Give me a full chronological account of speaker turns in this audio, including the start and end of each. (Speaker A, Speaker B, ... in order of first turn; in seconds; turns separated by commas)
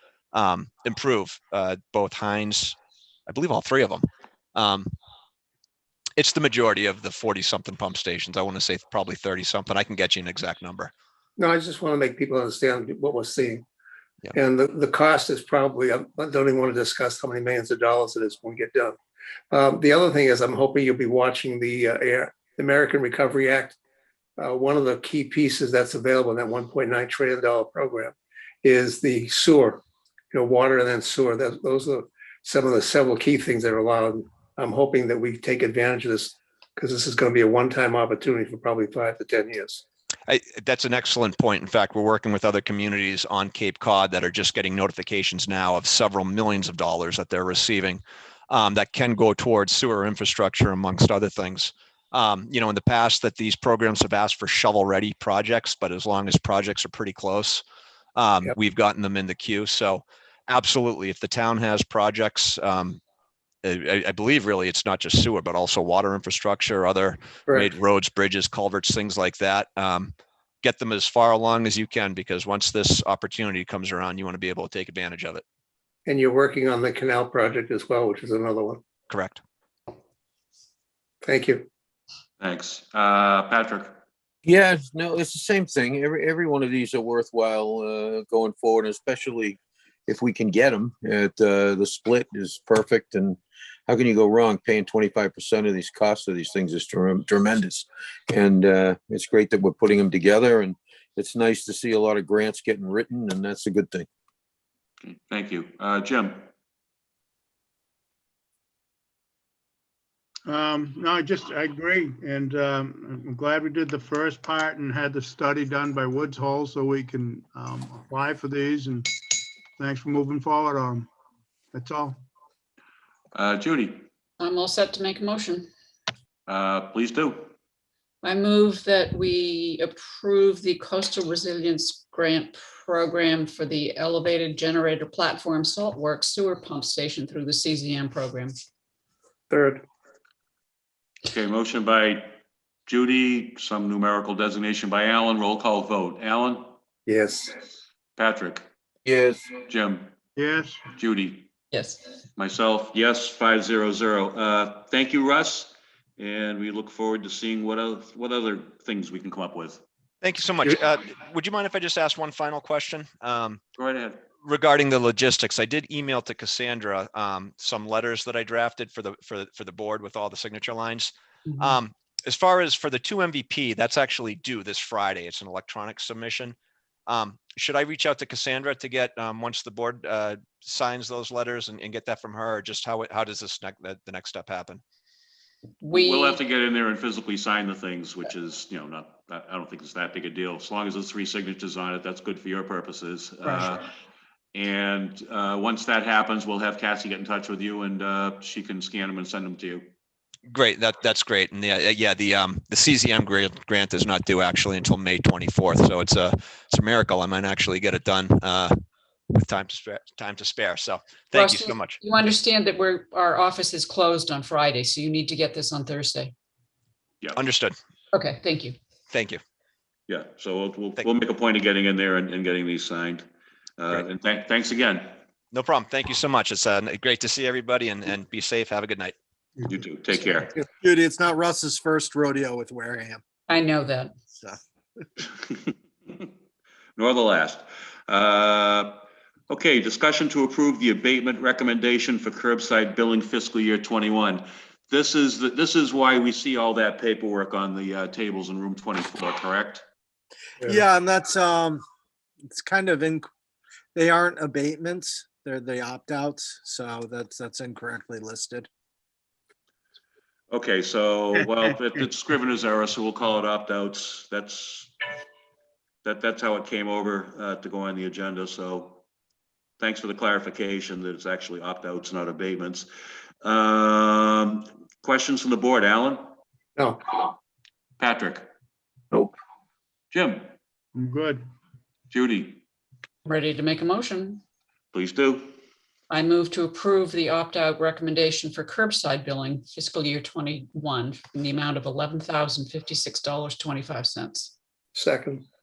Speaker A: 0.3-4.9, Speaker A: 6.2-10.9, Speaker B: 11.4-13.6, Speaker B: 14.3-19.0, Speaker B: 19.5-23.8, Speaker B: 24.4-39.8, Speaker A: 40.3-57.6, Speaker A: 58.1-63.0, Speaker A: 63.6-75.4, Speaker B: 76.0-78.8, Speaker A: 79.1-79.4, Speaker B: 81.2-81.7, Speaker C: 82.4-84.0, Speaker D: 84.4-104.1, Speaker C: 105.0-106.5, Speaker E: 110.5-121.1, Speaker E: 121.7-122.2, Speaker C: 123.3-124.1, Speaker F: 124.4-125.7, Speaker C: 126.5-127.5, Speaker F: 128.2-138.5, Speaker B: 139.5-139.8, Speaker C: 141.3-142.3, Speaker C: 142.9-146.7, Speaker B: 147.1-147.6, Speaker C: 148.2-148.7, Speaker D: 149.0-149.5, Speaker C: 149.7-150.1, Speaker E: 150.3-150.8, Speaker C: 150.9-151.5, Speaker F: 151.7-152.1, Speaker C: 152.4-159.8, Speaker A: 160.2-163.6, Speaker C: 163.8-164.2, Speaker A: 164.4-176.6, Speaker F: 171.5-171.8, Speaker A: 177.1-184.8, Speaker F: 185.8-186.4, Speaker C: 185.9-193.8, Speaker F: 193.4-193.7, Speaker C: 194.5-199.8, Speaker A: 200.5-208.8, Speaker A: 209.3-212.0, Speaker F: 211.3-216.3, Speaker A: 217.3-217.7, Speaker F: 218.1-218.8, Speaker A: 219.1-219.4, Speaker C: 220.1-223.2, Speaker C: 223.8-225.2, Speaker A: 225.5-229.1, Speaker C: 229.7-230.5, Speaker G: 230.5-233.2, Speaker F: 233.5-234.1, Speaker G: 234.3-234.6, Speaker C: 237.0-249.8, Speaker G: 250.6-251.8, Speaker G: 252.5-253.3, Speaker G: 253.9-258.7, Speaker C: 260.5-264.9, Speaker C: 266.0-269.0, Speaker C: 269.8-272.9, Speaker C: 273.4-276.3, Speaker B: 276.8-277.3, Speaker C: 278.0-278.5, Speaker C: 280.1-280.5, Speaker E: 280.9-281.4, Speaker C: 282.1-282.6, Speaker F: 283.2-284.4, Speaker C: 284.9-285.5, Speaker F: 286.1-294.5, Speaker B: 294.9-295.4